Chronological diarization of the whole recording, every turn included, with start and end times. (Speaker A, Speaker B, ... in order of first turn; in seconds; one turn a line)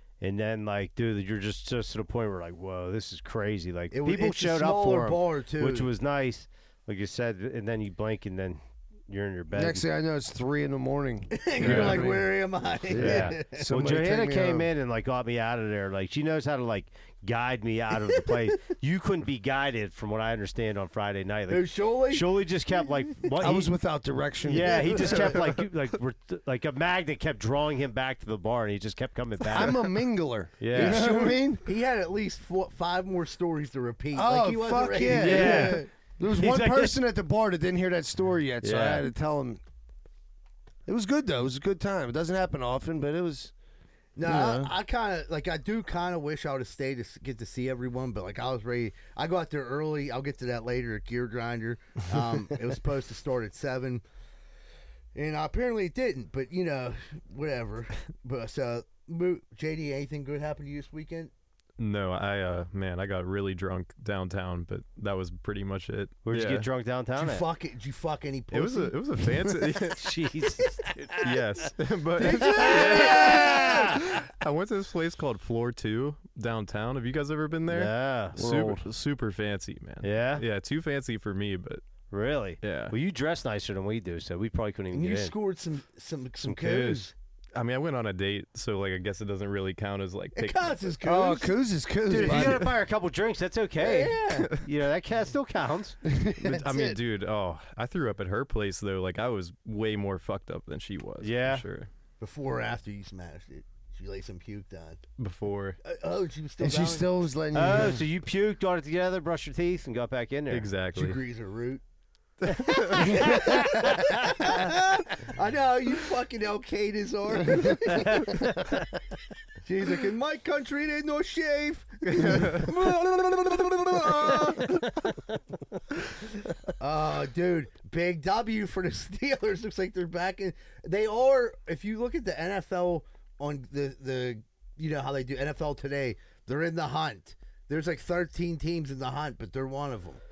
Speaker A: 0.2-9.8
Speaker B: 3.9-5.9
Speaker C: 9.5-12.3
Speaker B: 11.3-13.6
Speaker D: 11.6-11.9
Speaker C: 12.8-14.7
Speaker A: 13.0-23.7
Speaker B: 21.5-22.3
Speaker C: 23.4-25.4
Speaker A: 24.4-29.9
Speaker B: 24.7-25.3
Speaker C: 29.5-31.7
Speaker A: 30.6-31.0
Speaker B: 30.7-35.9
Speaker C: 34.1-39.6
Speaker A: 35.0-37.0
Speaker A: 38.6-39.0
Speaker C: 40.9-43.5
Speaker B: 44.1-54.0
Speaker C: 44.2-44.7
Speaker B: 55.1-61.3
Speaker D: 61.8-66.7
Speaker A: 66.2-67.5
Speaker B: 67.1-68.9
Speaker D: 68.5-70.1
Speaker A: 69.9-71.4
Speaker D: 71.2-81.8
Speaker B: 72.2-73.9
Speaker A: 72.3-74.0
Speaker A: 77.7-78.3
Speaker C: 78.3-78.9
Speaker A: 80.0-80.4
Speaker A: 82.1-85.3
Speaker D: 82.6-82.9
Speaker B: 84.9-87.1
Speaker A: 86.5-87.0
Speaker D: 87.5-90.9
Speaker B: 90.3-91.5
Speaker C: 91.0-92.7
Speaker A: 92.1-96.0
Speaker B: 93.8-94.5
Speaker D: 94.4-94.6
Speaker C: 96.0-97.0
Speaker D: 96.4-101.9
Speaker A: 101.2-101.6
Speaker B: 102.2-105.0
Speaker D: 105.2-105.8
Speaker B: 105.8-107.1
Speaker C: 106.6-108.0
Speaker A: 107.5-110.7
Speaker D: 110.5-111.2
Speaker B: 110.9-111.8
Speaker D: 112.5-113.1
Speaker A: 112.9-114.0
Speaker B: 113.0-118.4
Speaker B: 119.6-124.7
Speaker D: 122.1-122.7
Speaker B: 126.8-140.2